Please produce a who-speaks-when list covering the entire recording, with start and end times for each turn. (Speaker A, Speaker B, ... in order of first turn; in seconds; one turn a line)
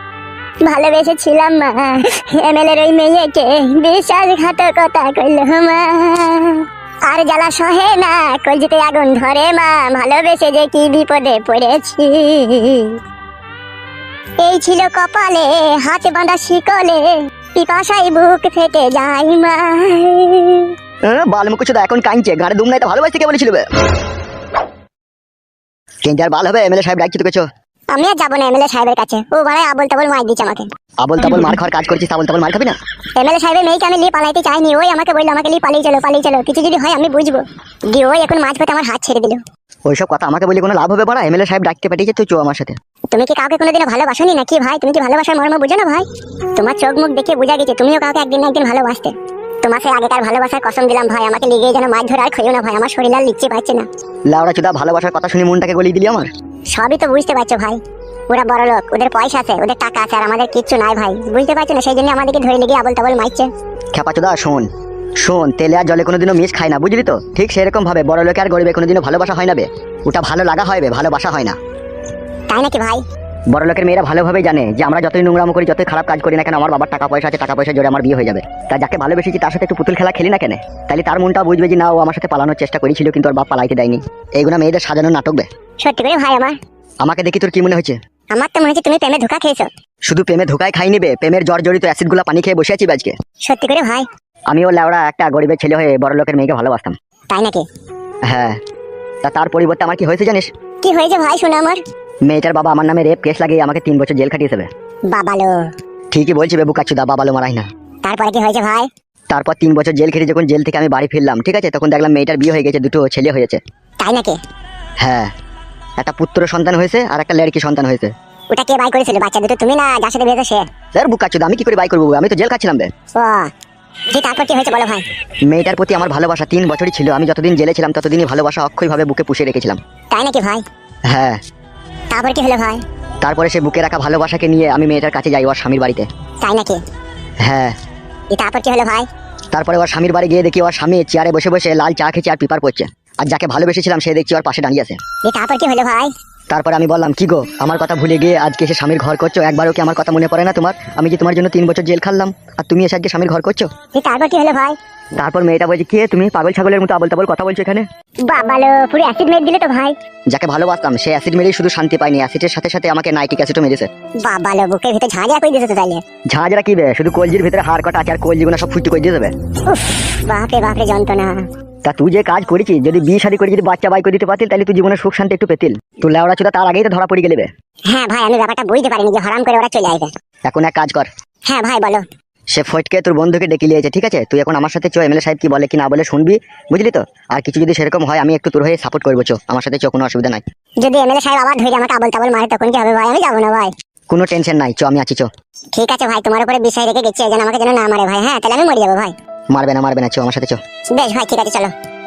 Speaker A: 0.6-13.0
Speaker A: 14.4-20.7
Speaker B: 21.1-23.6
Speaker B: 26.0-27.4
Speaker A: 27.9-30.7
Speaker B: 31.0-32.8
Speaker A: 33.2-39.4
Speaker B: 39.9-42.7
Speaker A: 43.1-53.9
Speaker B: 54.3-56.3
Speaker A: 56.7-63.5
Speaker B: 63.9-64.6
Speaker B: 65.2-71.6
Speaker A: 72.5-73.0
Speaker B: 73.5-85.5
Speaker A: 85.8-86.6
Speaker B: 87.0-88.0
Speaker A: 88.3-89.7
Speaker B: 90.1-93.1
Speaker A: 93.5-94.1
Speaker B: 94.5-96.9
Speaker A: 97.3-97.6
Speaker B: 98.3-98.5
Speaker B: 99.2-100.5
Speaker A: 100.8-101.8
Speaker B: 102.3-104.7
Speaker A: 105.1-105.7
Speaker B: 106.1-107.7
Speaker A: 108.0-108.9
Speaker B: 109.3-113.6
Speaker A: 114.0-114.4
Speaker B: 115.0-115.3
Speaker B: 116.0-118.1
Speaker A: 118.5-120.6
Speaker B: 120.9-122.9
Speaker A: 123.2-123.5
Speaker A: 124.1-125.0
Speaker B: 125.5-129.8
Speaker A: 130.1-130.6
Speaker B: 131.1-131.4
Speaker A: 132.1-132.8
Speaker B: 133.2-136.1
Speaker A: 136.4-136.8
Speaker B: 137.4-137.7
Speaker A: 138.3-139.1
Speaker B: 139.5-145.0
Speaker A: 145.3-146.1
Speaker B: 146.5-153.7
Speaker A: 153.9-154.8
Speaker B: 155.2-157.8
Speaker A: 158.3-159.9
Speaker B: 160.3-163.9
Speaker A: 164.2-166.0
Speaker B: 166.3-169.3
Speaker A: 169.7-171.4
Speaker B: 171.8-177.5
Speaker A: 177.9-180.1
Speaker B: 180.5-181.1
Speaker A: 181.5-182.0
Speaker B: 182.5-190.4
Speaker A: 190.8-193.7
Speaker B: 194.1-195.3
Speaker A: 195.7-199.1
Speaker B: 199.5-200.6
Speaker A: 200.9-201.7